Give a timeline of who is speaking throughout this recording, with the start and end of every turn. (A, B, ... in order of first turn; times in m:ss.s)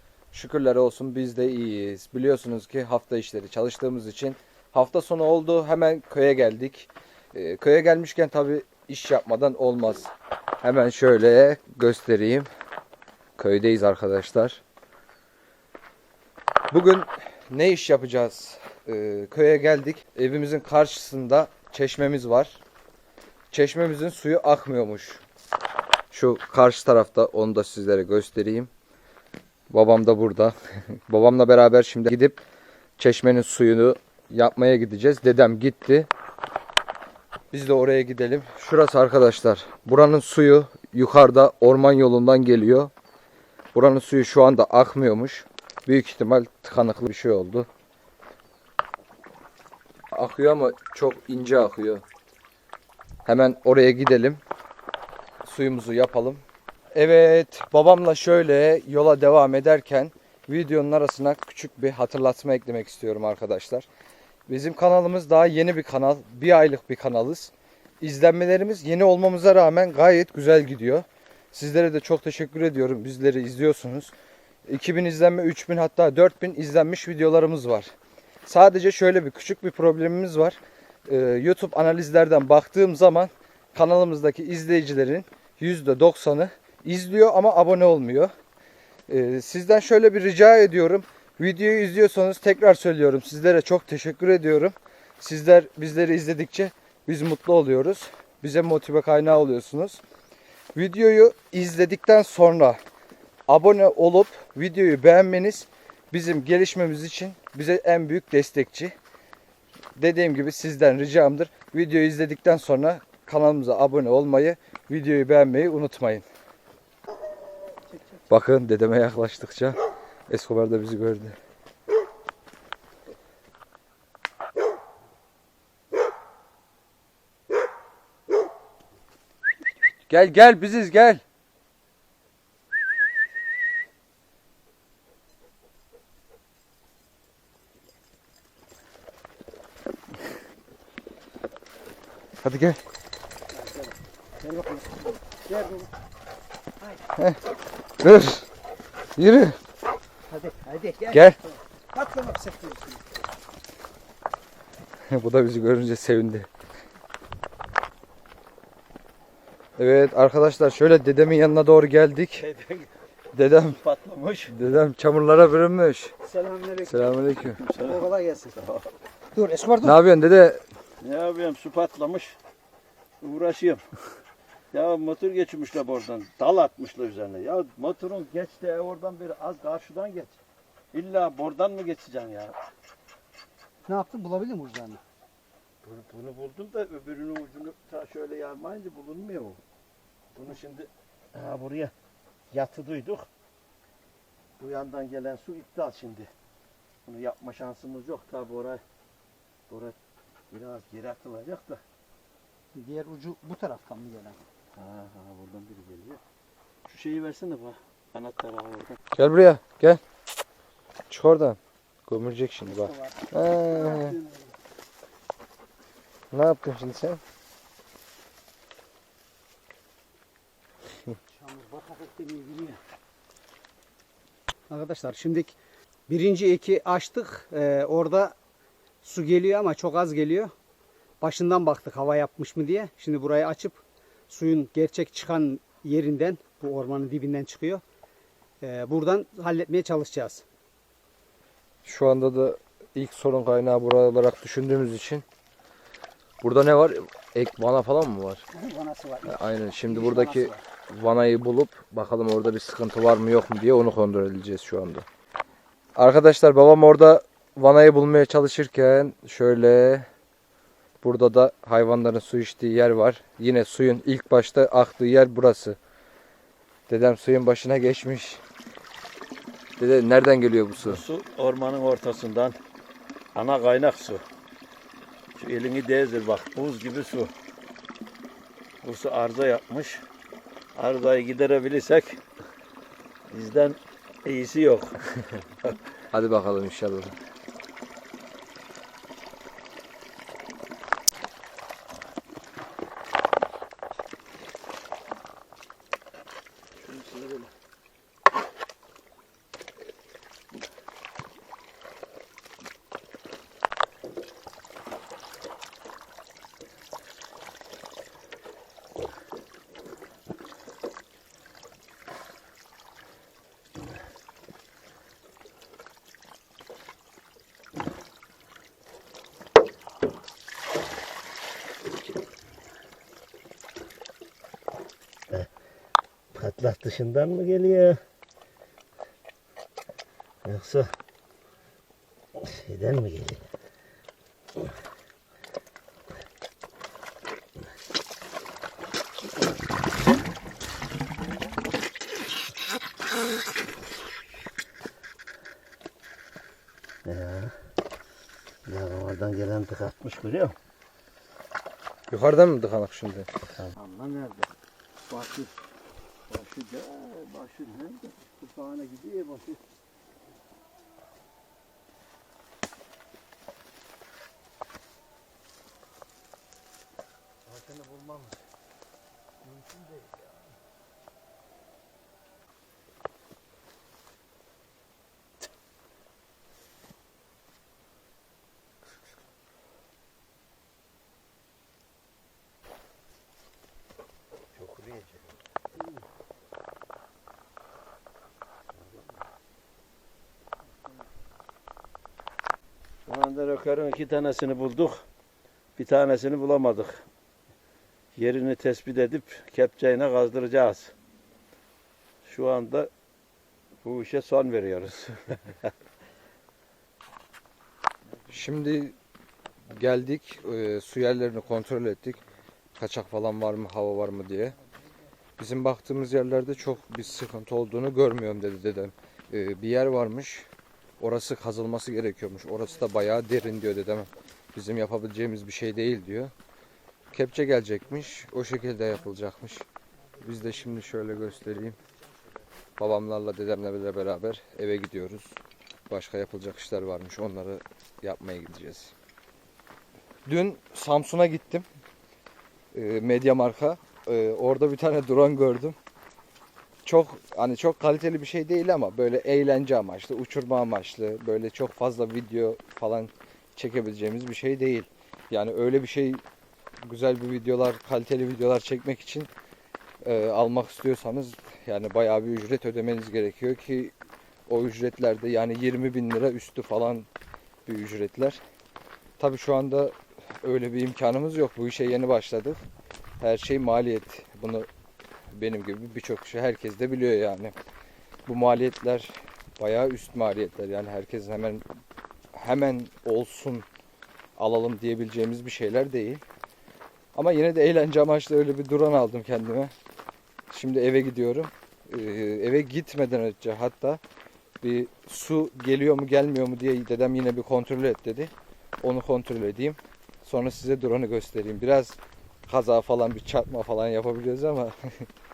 0:00.3-0:10.1 A
0:10.6-0:12.5 A
0:13.4-0:14.6 A
0:16.7-0:22.6 A
0:23.5-0:25.2 A
0:26.1-0:28.7 A
0:29.7-0:30.6 A
0:31.1-0:32.4 A
0:33.0-0:36.1 A
0:37.5-0:42.9 A
0:43.7-0:47.7 A
0:50.1-0:52.0 A
0:53.2-0:54.4 A
0:55.4-1:03.9 A
1:04.5-1:14.1 A
1:14.7-1:17.9 A
1:18.4-1:28.3 A
1:29.1-1:40.0 A
1:40.7-1:42.8 A
1:43.5-1:48.9 A
1:50.0-1:56.2 A
1:58.3-2:01.4 A
2:10.1-2:11.2 A
2:22.4-2:22.8 A
2:23.5-2:25.9 B
2:28.0-2:28.5 A
2:29.2-2:29.6 A
2:30.3-2:31.3 B
2:31.1-2:31.4 A
2:31.9-2:33.0 B
2:35.1-2:36.5 A
2:39.8-2:42.4 A
2:42.4-2:42.9 C
2:43.3-2:43.8 A
2:43.7-2:44.5 C
2:44.5-2:46.1 A
2:46.2-2:47.2 B
2:46.9-2:47.6 A
2:47.5-2:48.0 C
2:47.8-2:48.6 B
2:48.5-2:48.8 C
2:49.4-2:49.9 B
2:49.8-2:50.6 A
2:51.0-2:52.4 C
2:53.2-2:53.8 C
2:54.7-3:00.4 C
3:00.9-3:02.6 C
3:03.9-3:05.0 B
3:05.8-3:09.6 C
3:10.3-3:11.9 C
3:12.5-3:13.3 C
3:14.6-3:16.3 C
3:17.1-3:18.8 C
3:19.7-3:20.0 C
3:20.5-3:21.8 C
3:22.7-3:24.4 B
3:24.8-3:26.2 C
3:26.8-3:29.0 C
3:29.2-3:30.0 A
3:31.1-3:34.2 A
3:32.7-3:34.4 B
3:36.3-3:37.2 A
3:41.3-3:42.8 B
3:44.7-3:45.6 B
3:46.1-3:48.4 B
3:49.0-3:50.5 B
3:51.2-3:57.8 B
3:58.6-4:00.4 B
4:01.8-4:05.2 A
4:06.4-4:08.4 A
4:08.5-4:10.6 B
4:09.2-4:15.0 A
4:16.0-4:20.1 A
4:21.0-4:25.8 A
4:26.9-4:28.4 A
4:29.8-4:31.0 A
4:30.8-4:32.6 C
4:33.4-4:34.2 C
4:35.4-4:37.3 C
4:38.8-4:40.0 C
4:40.8-4:42.2 C
4:43.3-4:45.0 C
4:46.1-4:47.2 A
4:56.8-4:57.5 C
5:26.3-5:28.0 C
5:30.4-5:30.9 C
5:32.4-5:33.4 C
5:47.0-5:47.6 C
5:48.7-5:50.6 C
5:52.1-5:53.3 A
5:53.6-5:54.5 C
5:55.1-5:55.6 C
5:56.3-5:59.6 C
6:07.5-6:08.4 C
6:09.4-6:10.5 C
6:24.6-6:25.4 C
6:28.7-6:29.2 C
6:33.1-6:35.0 C
6:35.8-6:37.1 C
6:38.2-6:40.9 C
6:42.2-6:42.9 C
6:43.8-6:45.7 C
6:48.3-6:49.0 A
6:49.7-6:52.2 A
6:52.8-6:54.6 A
6:55.4-7:00.5 A
7:01.0-7:06.3 A
7:07.1-7:09.7 A
7:10.2-7:11.8 A
7:12.8-7:15.4 A
7:15.9-7:18.9 A
7:20.3-7:21.7 A
7:22.7-7:25.8 A
7:26.8-7:36.2 A
7:36.8-7:39.3 A
7:40.0-7:43.9 A
7:44.5-7:47.1 A
7:47.7-7:48.4 A
7:49.2-7:52.6 A
7:53.2-7:54.7 A
7:55.3-7:57.6 A
7:58.3-8:01.7 A
8:02.3-8:03.6 A
8:04.4-8:06.2 A
8:07.2-8:09.7 A
8:10.5-8:14.0 A
8:14.6-8:25.1 A